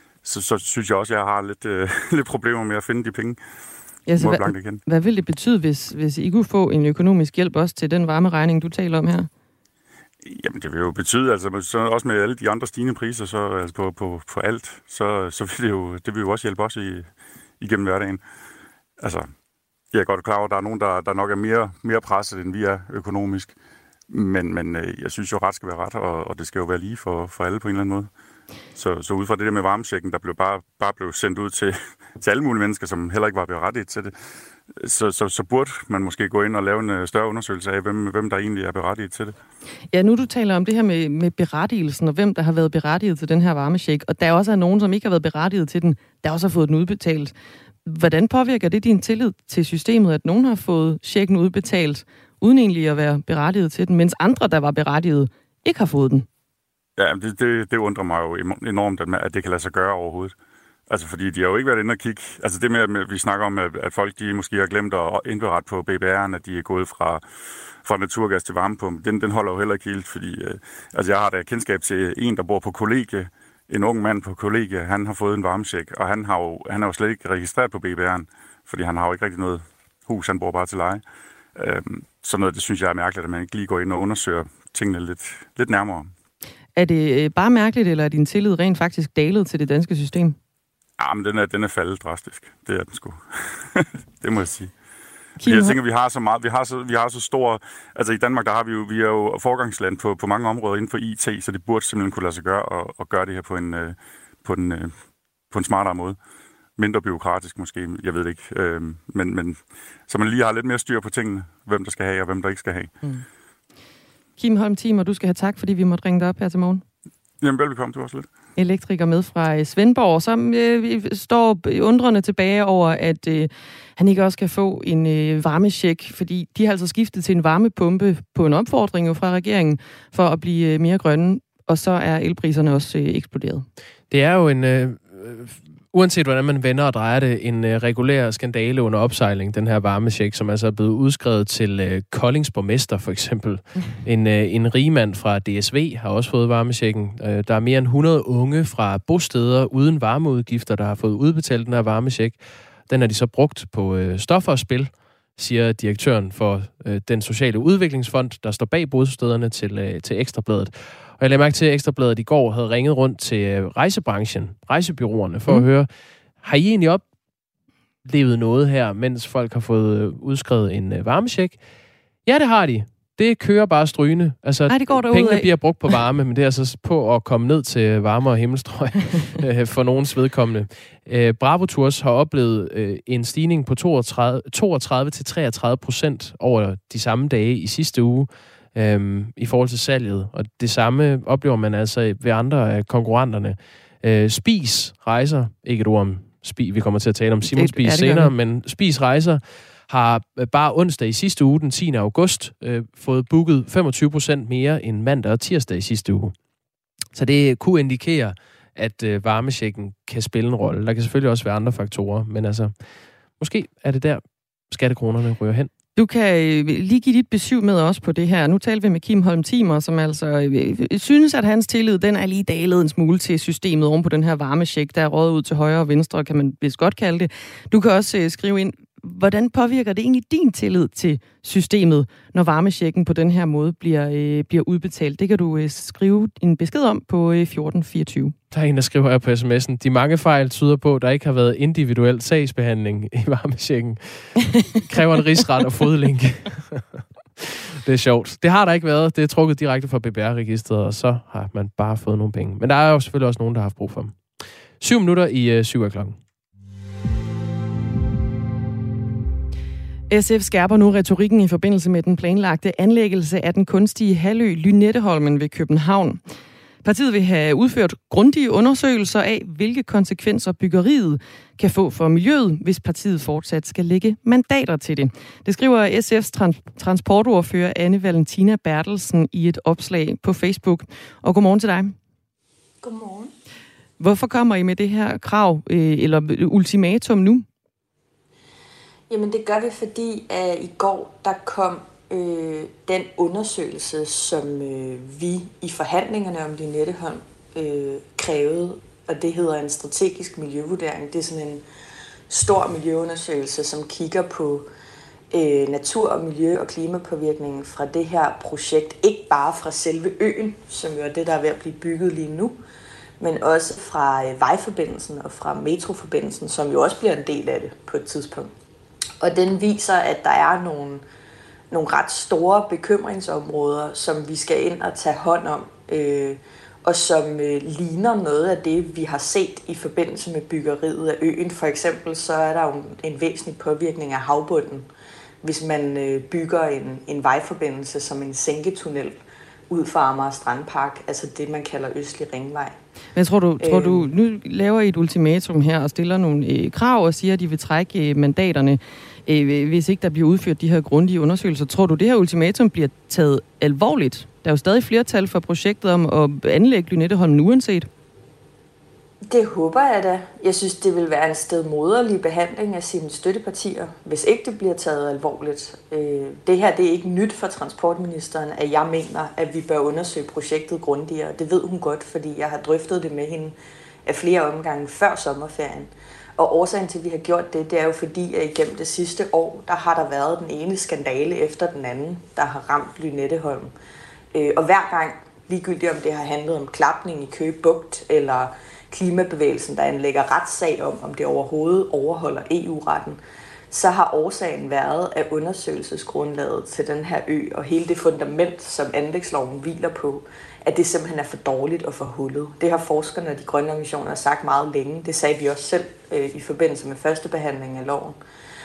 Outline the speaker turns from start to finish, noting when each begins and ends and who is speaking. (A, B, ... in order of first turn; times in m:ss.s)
0:00.2-0:03.4 A
0:04.1-0:09.3 B
0:04.2-0:04.8 A
0:10.2-0:18.2 A
0:19.0-0:19.3 A
0:19.9-0:23.6 A
0:24.1-0:28.1 A
0:28.8-0:34.1 A
0:34.7-0:39.4 A
0:39.9-0:47.3 B
0:47.8-0:56.3 B
0:57.0-1:00.4 A
1:00.9-1:07.2 A
1:07.8-1:21.0 A
1:21.6-1:26.1 A
1:26.8-1:30.4 B
1:31.0-1:34.7 A
1:35.4-1:35.8 B
1:35.4-1:44.9 A
1:45.5-1:46.2 A
1:46.8-1:52.9 A
1:54.4-1:56.8 B
1:57.4-1:58.3 A
1:58.6-2:13.6 B
2:14.1-2:45.9 C
2:46.4-2:47.0 C
2:48.0-2:51.6 C
2:52.3-3:26.3 C
2:54.7-2:55.5 B
3:17.6-3:18.3 B
3:27.1-3:32.7 C
3:33.4-3:35.7 C
3:36.0-3:58.4 B
3:58.5-4:06.8 C
4:07.4-4:14.2 C
4:14.8-4:16.2 C
4:20.1-4:26.2 B
4:26.8-4:42.0 B
4:42.8-4:43.3 D
4:44.0-4:47.5 B
4:49.1-5:01.6 D
5:02.3-5:04.7 D
5:05.3-5:12.6 D
5:13.2-5:18.5 D
5:19.2-5:21.0 D
5:21.7-5:34.9 D
5:35.4-5:39.2 D
5:39.7-5:42.8 D
5:43.2-5:57.9 B
5:43.6-5:44.1 D
5:59.3-6:13.6 D
6:14.1-6:23.7 D
6:24.3-6:33.2 D
6:33.7-6:48.2 D